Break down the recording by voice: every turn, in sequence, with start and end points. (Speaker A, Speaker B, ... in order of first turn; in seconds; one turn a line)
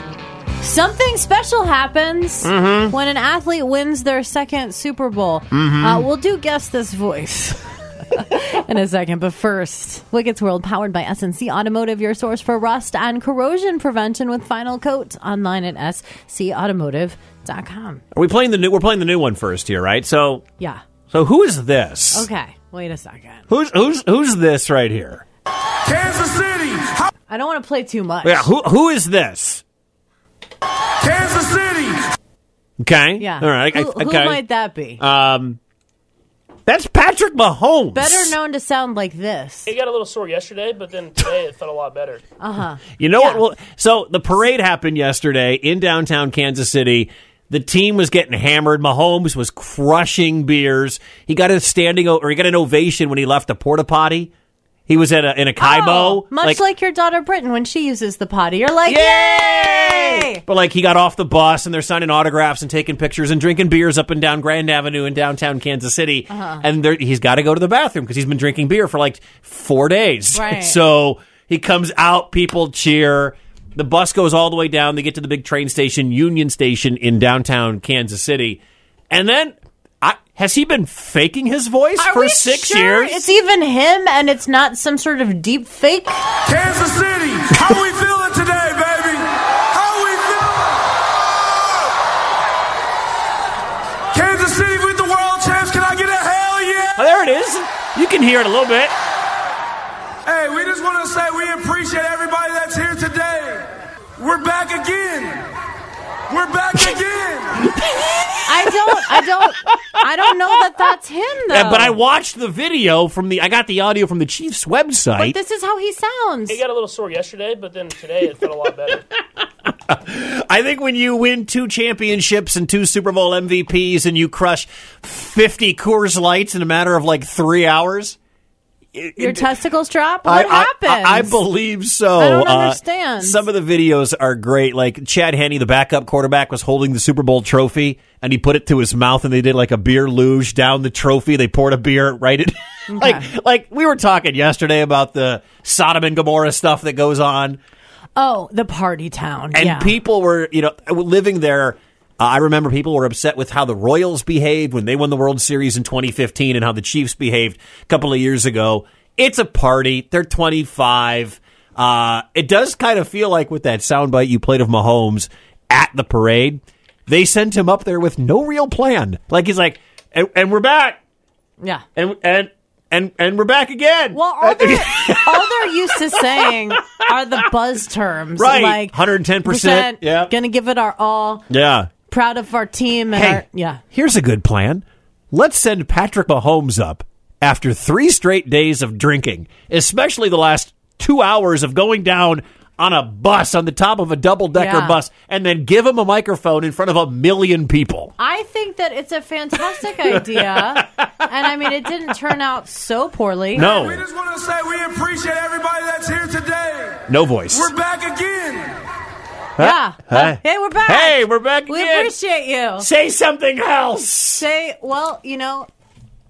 Speaker A: 0.6-18.0
Speaker B: 2.4-2.9
Speaker B: 5.5-6.0
Speaker B: 18.1-20.4
Speaker B: 21.1-22.3
Speaker A: 22.1-23.4
Speaker B: 23.5-25.2
Speaker C: 25.9-27.1
Speaker A: 27.3-28.5
Speaker B: 28.2-29.6
Speaker C: 31.0-32.0
Speaker B: 32.8-34.4
Speaker A: 33.2-35.0
Speaker B: 35.0-35.6
Speaker B: 36.6-38.3
Speaker A: 37.9-39.7
Speaker D: 39.6-42.2
Speaker A: 42.4-43.4
Speaker B: 43.0-54.3
Speaker B: 54.9-56.6
Speaker A: 55.6-60.4
Speaker B: 58.9-83.3
Speaker A: 66.3-66.6
Speaker A: 70.3-70.8
Speaker A: 82.0-86.2
Speaker C: 86.5-90.8
Speaker C: 94.1-96.9
Speaker B: 97.0-98.9
Speaker C: 100.2-105.5
Speaker C: 106.3-107.5
Speaker B: 107.6-110.0
Speaker A: 108.4-112.0
Speaker B: 111.5-115.4
Speaker A: 115.2-116.6
Speaker D: 116.5-119.0
Speaker B: 119.7-128.2
Speaker B: 128.9-129.5
Speaker A: 129.2-131.4
Speaker B: 130.2-147.6
Speaker A: 132.2-133.4
Speaker A: 142.9-143.2
Speaker A: 148.2-149.9
Speaker B: 149.5-171.0
Speaker B: 171.9-176.8
Speaker A: 174.1-181.4
Speaker B: 178.4-180.3
Speaker B: 181.5-181.9
Speaker A: 182.1-183.8
Speaker B: 183.1-198.1
Speaker A: 194.5-195.0
Speaker A: 198.2-203.9
Speaker B: 199.8-201.3
Speaker B: 203.5-204.1
Speaker C: 204.0-207.0
Speaker B: 207.1-207.7
Speaker C: 207.7-208.8
Speaker B: 209.6-212.1
Speaker A: 209.6-212.9
Speaker B: 212.8-214.4
Speaker A: 214.3-215.7